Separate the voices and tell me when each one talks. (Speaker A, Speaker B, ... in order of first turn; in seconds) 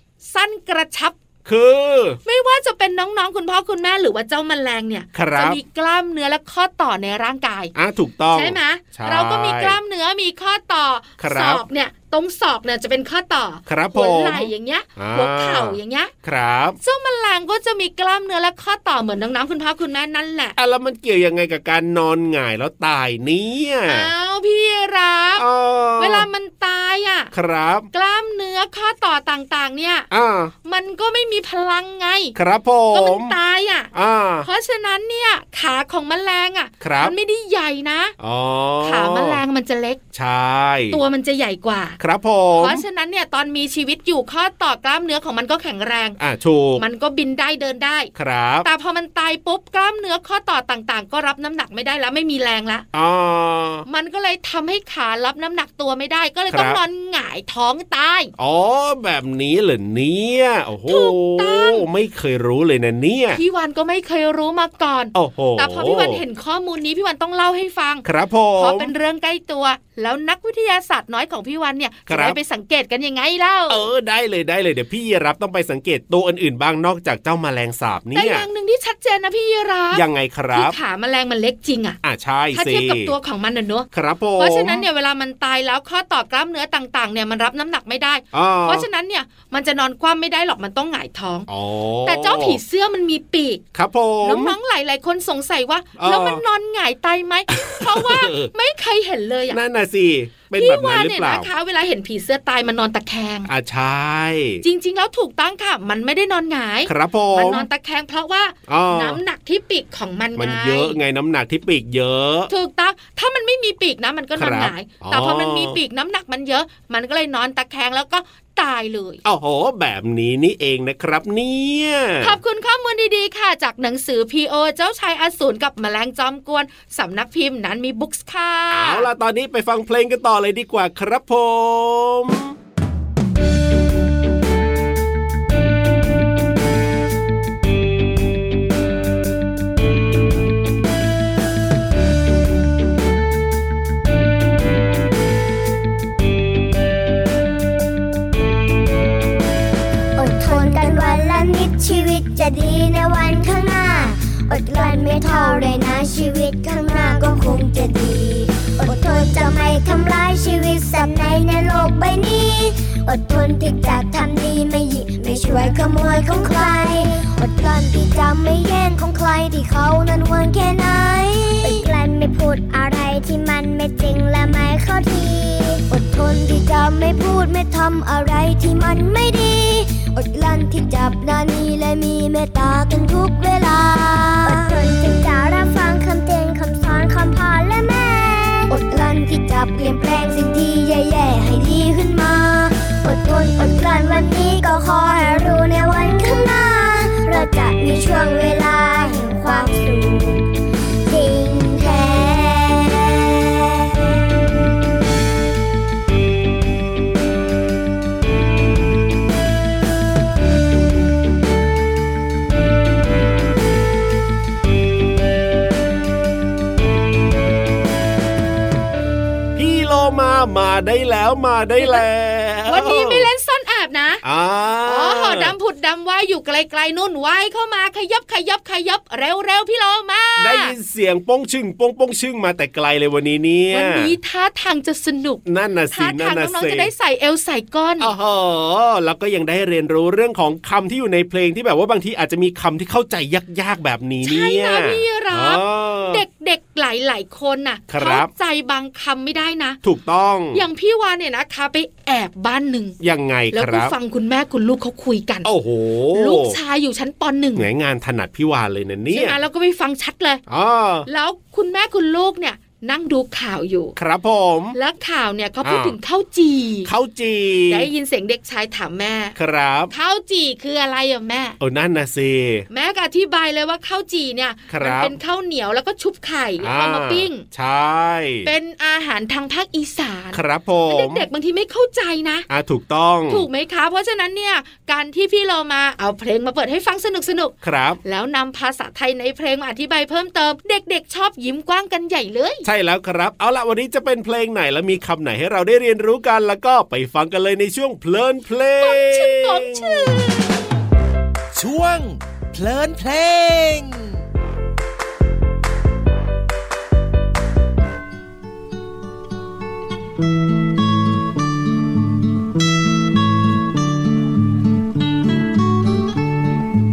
Speaker A: 0.2-1.1, 2.2-7.7, 8.3-16.1, 16.8-20.5, 23.9-25.4, 26.0-27.3, 27.9-30.1, 30.6-32.3, 32.9-33.9, 34.4-38.1, 38.8-40.0, 40.9-42.0, 42.6-46.2, 46.8-48.1, 48.6-52.8, 53.9-58.3, 60.9-61.8, 63.3-68.0, 68.6-73.8, 78.1-82.0, 82.5-83.8, 84.4-91.5, 92.0-93.6, 94.2-99.6, 100.5-103.5, 104.6-111.0, 112.5-119.2, 122.2-129.1, 221.8-222.0, 222.7-224.2, 224.8-230.7, 233.7-238.1, 244.2-249.8, 250.5-252.9, 253.5-255.5, 256.1-257.7, 259.1-260.4, 261.1-263.9, 264.7-266.9, 267.7-269.3, 269.9-271.6, 272.7-277.4, 278.4-282.5, 283.3-287.5, 288.0-292.6, 298.8-300.5
Speaker B: 1.4-2.2, 5.1-5.6, 7.7-9.8, 11.2-11.6, 13.7-16.8, 20.6-24.1, 25.4-26.2, 27.3-27.9, 30.1-30.5, 32.3-33.4, 33.9-34.5, 36.8-37.1, 38.2-39.4, 40.1-41.0, 42.0-42.8, 46.2-46.8, 48.1-48.6, 52.9-53.8, 56.5-56.8, 58.4-63.4, 65.1-66.2, 68.0-68.9, 72.1-72.4, 73.7-78.5, 79.9-80.7, 82.0-83.1, 83.9-84.8, 88.3-88.8, 91.5-92.6, 93.7-94.5, 96.0-96.4, 97.5-98.5, 99.5-101.5, 103.5-104.6, 106.9-107.7, 108.7-109.2, 110.4-112.5, 114.4-115.8, 119.2-122.4, 128.7-132.5, 219.6-223.3, 224.2-225.5, 230.4-234.1, 235.4-236.9, 238.0-246.2, 247.9-248.3, 249.8-250.6, 253.0-253.9, 255.4-256.6, 257.6-259.4, 260.5-261.1, 264.0-264.8, 265.6-265.9, 266.8-267.9, 269.4-269.9, 271.6-272.6, 274.7-275.1, 276.6-278.5, 280.3-281.2, 282.5-283.5, 287.6-288.0, 292.6-300.0
Speaker C: 150.2-200.5, 201.0-203.4
Speaker D: 301.5-304.2